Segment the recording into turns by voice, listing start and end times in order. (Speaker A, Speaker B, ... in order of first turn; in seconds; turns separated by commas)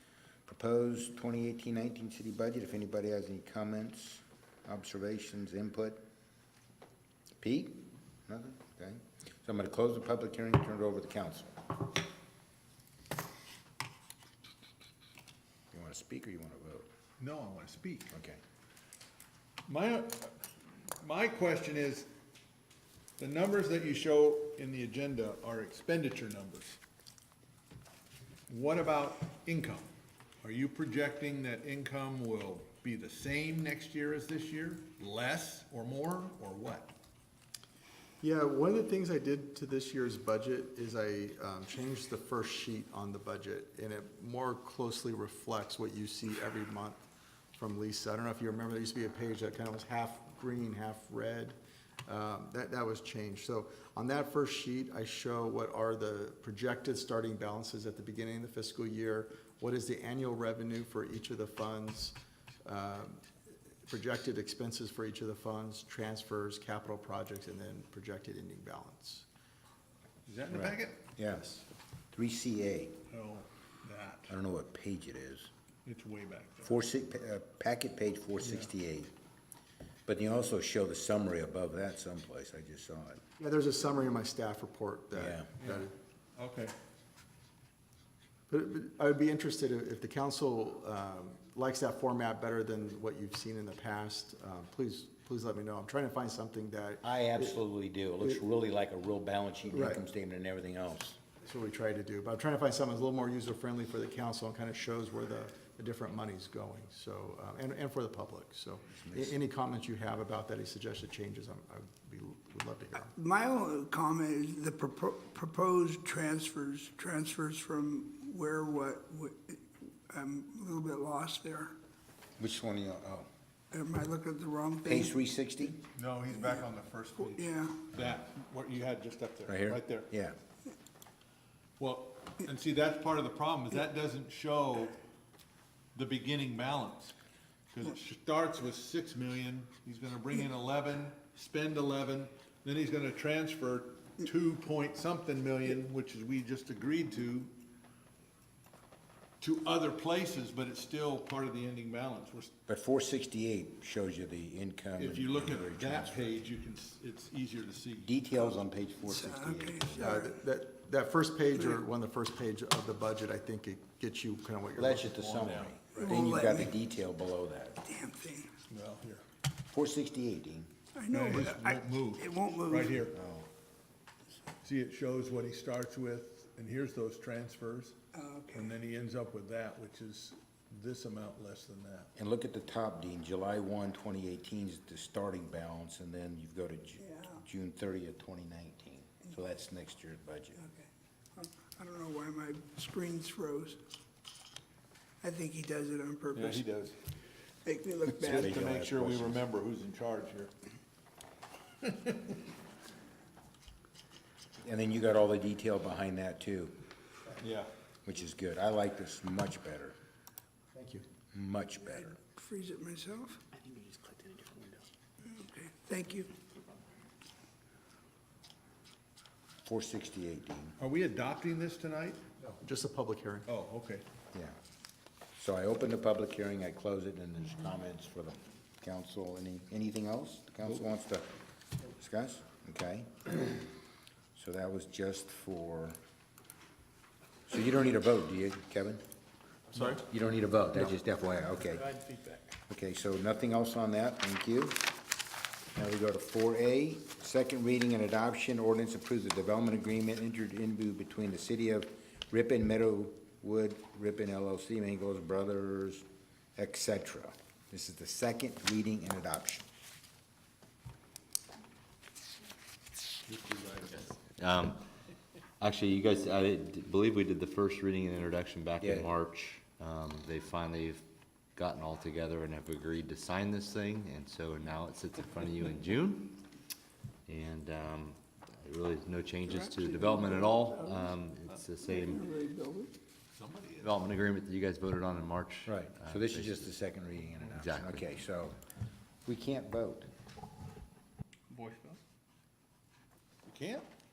Speaker A: 0.5-6.0, Speaker A: 7.4-11.6, Speaker A: 15.7-16.9, Speaker B: 17.2-18.1, Speaker A: 18.1-18.4, Speaker B: 19.7-20.3, Speaker B: 21.0-22.1, Speaker B: 23.2-26.8, Speaker B: 28.5-29.9, Speaker B: 30.4-36.9, Speaker C: 38.2-47.0, Speaker C: 47.5-63.2, Speaker C: 63.9-69.2, Speaker B: 70.2-71.1, Speaker A: 70.5-71.5, Speaker C: 71.3-71.7, Speaker A: 72.1-73.0, Speaker B: 73.1-74.3, Speaker A: 74.3-75.5, Speaker B: 75.8-76.8, Speaker A: 76.6-79.1, Speaker A: 80.1-83.2, Speaker C: 83.4-85.9, Speaker A: 85.1-85.5, Speaker B: 85.6-86.7, Speaker C: 88.5-97.6, Speaker A: 97.0-101.2, Speaker C: 99.7-100.0, Speaker C: 101.4-113.1, Speaker A: 108.9-109.3, Speaker D: 113.1-121.7, Speaker A: 122.4-123.3, Speaker D: 123.7-125.1, Speaker A: 124.8-125.8, Speaker B: 125.9-130.1, Speaker D: 127.3-127.8, Speaker A: 129.5-130.4, Speaker B: 131.8-135.0, Speaker B: 135.9-137.1, Speaker B: 137.7-147.5, Speaker B: 149.4-152.5, Speaker A: 152.7-156.3, Speaker B: 154.9-158.2, Speaker A: 158.0-160.3, Speaker D: 159.1-160.3, Speaker C: 160.0-165.0, Speaker A: 164.8-167.8, Speaker B: 164.9-166.3, Speaker D: 165.9-166.8, Speaker D: 167.8-168.5, Speaker B: 168.7-169.2, Speaker A: 169.7-170.7, Speaker D: 170.9-173.0, Speaker B: 171.1-173.2, Speaker A: 173.1-173.5, Speaker B: 174.6-178.0, Speaker D: 178.1-178.7, Speaker B: 178.5-182.1, Speaker A: 182.2-190.6, Speaker D: 190.6-193.8, Speaker D: 195.2-196.7, Speaker B: 196.3-197.0, Speaker D: 197.6-198.5, Speaker B: 198.2-200.5, Speaker A: 198.2-199.4, Speaker B: 201.8-202.4, Speaker A: 204.6-206.7, Speaker B: 207.4-207.7, Speaker A: 208.0-209.9, Speaker C: 210.7-211.0, Speaker A: 211.3-212.2, Speaker D: 212.2-213.4, Speaker D: 215.2-216.3, Speaker A: 219.6-220.8, Speaker B: 220.8-222.2, Speaker C: 222.4-223.5, Speaker B: 223.5-224.0, Speaker A: 225.4-231.3, Speaker A: 231.8-233.7, Speaker A: 234.3-236.0, Speaker A: 237.5-239.0, Speaker B: 239.7-240.0, Speaker A: 239.8-242.0, Speaker B: 242.0-242.3, Speaker A: 242.7-244.9, Speaker A: 245.7-259.7, Speaker B: 263.3-264.1, Speaker E: 264.1-264.9, Speaker E: 265.6-271.0, Speaker A: 268.8-269.1, Speaker E: 271.6-276.4, Speaker E: 277.3-282.3, Speaker D: 279.7-281.1, Speaker D: 281.8-282.9, Speaker B: 283.3-284.1, Speaker E: 283.8-286.7, Speaker A: 285.6-288.6, Speaker E: 287.5-288.0, Speaker A: 289.2-290.1, Speaker B: 293.5-293.9